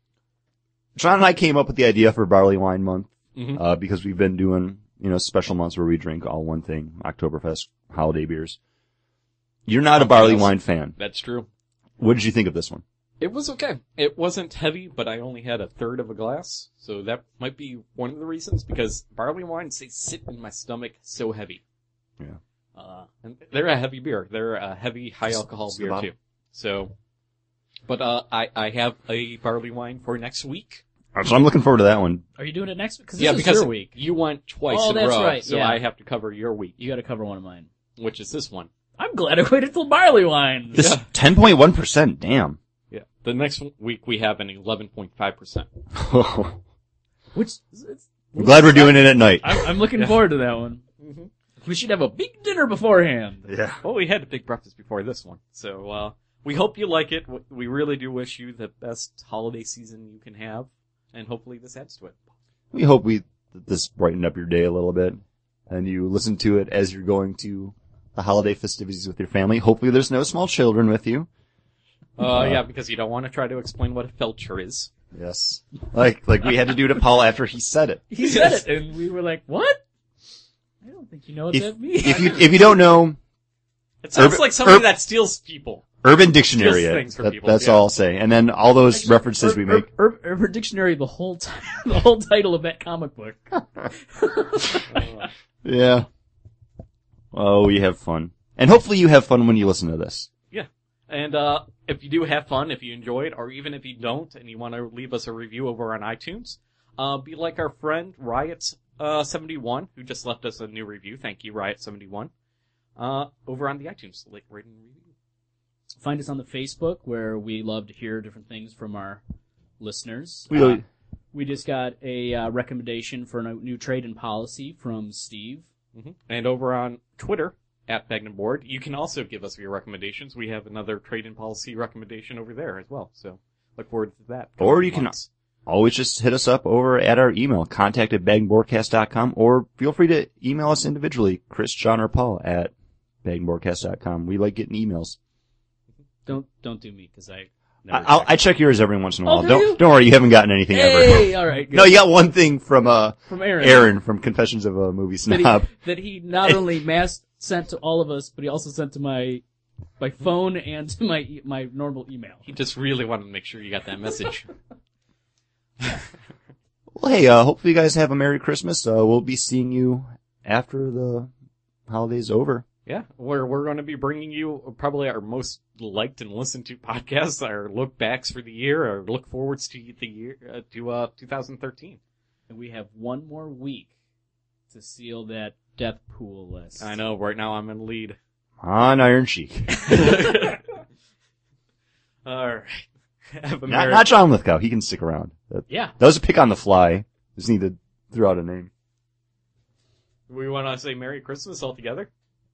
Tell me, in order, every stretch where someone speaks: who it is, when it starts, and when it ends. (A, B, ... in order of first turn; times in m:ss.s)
0:01.0-0:08.6 A
0:03.3-0:03.6 B
0:09.6-0:10.9 A
0:10.0-0:11.5 B
0:12.0-0:12.8 A
0:13.2-0:21.6 B
0:22.8-0:26.9 B
0:25.3-0:26.1 A
0:27.8-0:30.8 B
0:31.1-0:32.2 A
0:32.4-0:33.9 C
0:33.2-0:36.8 B
0:34.7-0:35.8 C
0:36.8-0:37.7 C
0:38.0-0:38.7 B
0:39.0-0:40.9 C
0:40.7-0:42.6 A
0:40.8-0:41.0 B
0:42.9-0:45.7 B
0:45.9-0:46.6 A
0:47.3-0:50.8 C
0:48.4-0:49.7 A
0:50.0-0:50.2 B
0:51.0-0:51.3 B
0:51.6-0:53.5 C
0:53.5-0:53.8 A
0:53.8-1:02.2 B
1:02.7-1:11.3 A
1:12.2-1:14.9 B
1:12.3-1:12.6 A
1:15.1-1:18.0 A
1:18.1-1:19.8 C
1:18.2-1:18.6 B
1:20.8-1:22.5 C
1:21.5-1:23.2 A
1:24.0-1:25.9 B
1:24.2-1:24.8 A
1:26.0-1:29.9 A
1:26.6-1:27.8 B
1:28.9-1:35.1 C
1:34.9-1:35.3 B
1:35.6-1:36.1 A
1:37.3-1:40.3 A
1:40.5-1:52.3 B
1:53.0-1:55.1 B
1:56.0-1:59.2 C
1:59.8-2:05.7 C
2:00.5-2:00.8 A
2:05.9-2:15.3 B
2:14.6-2:15.1 A
2:15.6-2:22.7 A
2:23.2-2:25.2 A
2:26.2-2:28.3 C
2:27.9-2:35.7 A
2:29.2-2:29.8 C
2:30.7-2:32.0 C
2:33.3-2:33.9 C
2:35.3-2:39.4 C
2:40.0-2:42.5 C
2:42.4-2:44.5 B
2:47.0-2:51.3 A
2:51.9-2:52.6 A
2:52.8-3:02.0 B
3:02.5-3:03.9 C
3:04.7-3:06.9 C
3:06.8-3:08.2 B
3:08.6-3:10.1 A
3:09.8-3:10.6 B
3:12.2-3:14.0 B
3:13.7-3:18.7 A
3:15.7-3:15.9 C
3:20.3-3:22.1 B